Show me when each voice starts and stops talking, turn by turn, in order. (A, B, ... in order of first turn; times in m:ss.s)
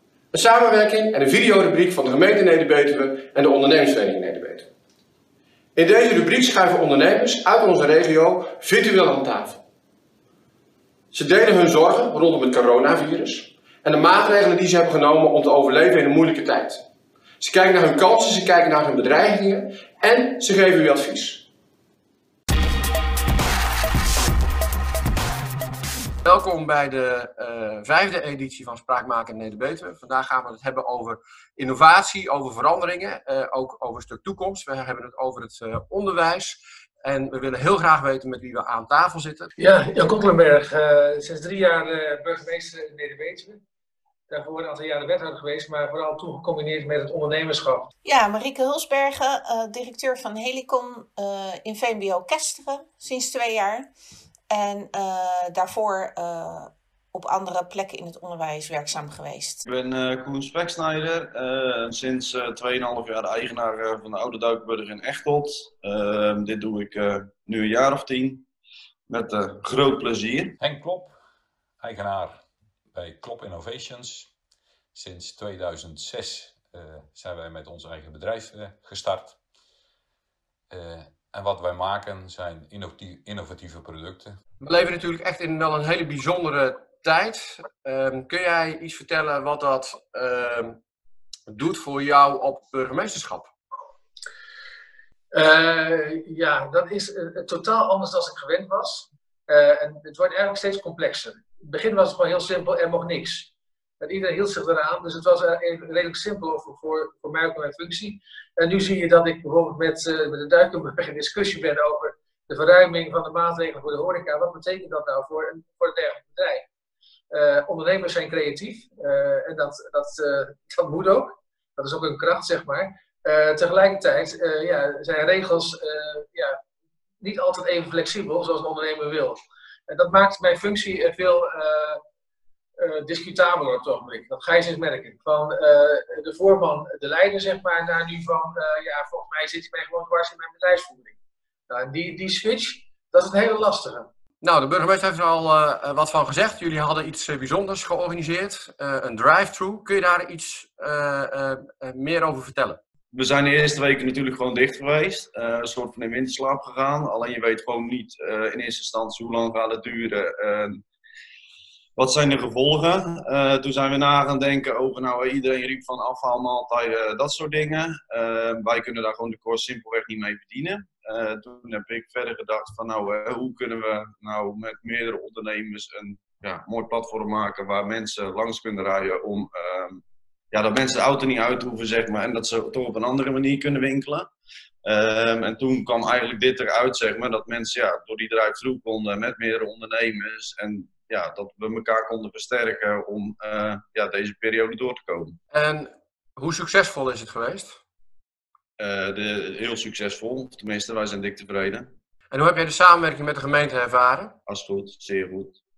0:00.3-0:04.7 A
0:05.8-0:09.6 A
0:11.1-0:16.8 A
0:17.4-0:21.5 A
0:26.2-0:39.5 A
0:39.6-0:43.6 B
0:44.3-0:47.9 B
0:48.0-0:53.9 C
0:54.5-0:59.6 C
0:59.6-1:08.4 D
1:09.1-1:10.6 D
1:10.6-1:11.2 E
1:11.8-1:12.4 E
1:13.0-1:14.3 E
1:14.9-1:19.4 E
1:20.7-1:24.4 E
1:24.6-1:30.8 A
1:31.5-1:33.5 A
1:35.3-1:56.7 B
1:57.3-2:06.6 B
2:07.2-2:12.0 B
2:12.8-2:21.2 B
2:21.7-2:24.1 B
2:24.4-2:32.8 A
2:33.1-2:40.8 D
2:42.0-3:00.0 D
3:00.5-3:04.3 D
3:04.8-3:15.4 D
3:15.5-3:17.8 A
3:18.8-3:21.9 D
3:22.3-3:24.4 A
3:24.5-3:25.6 D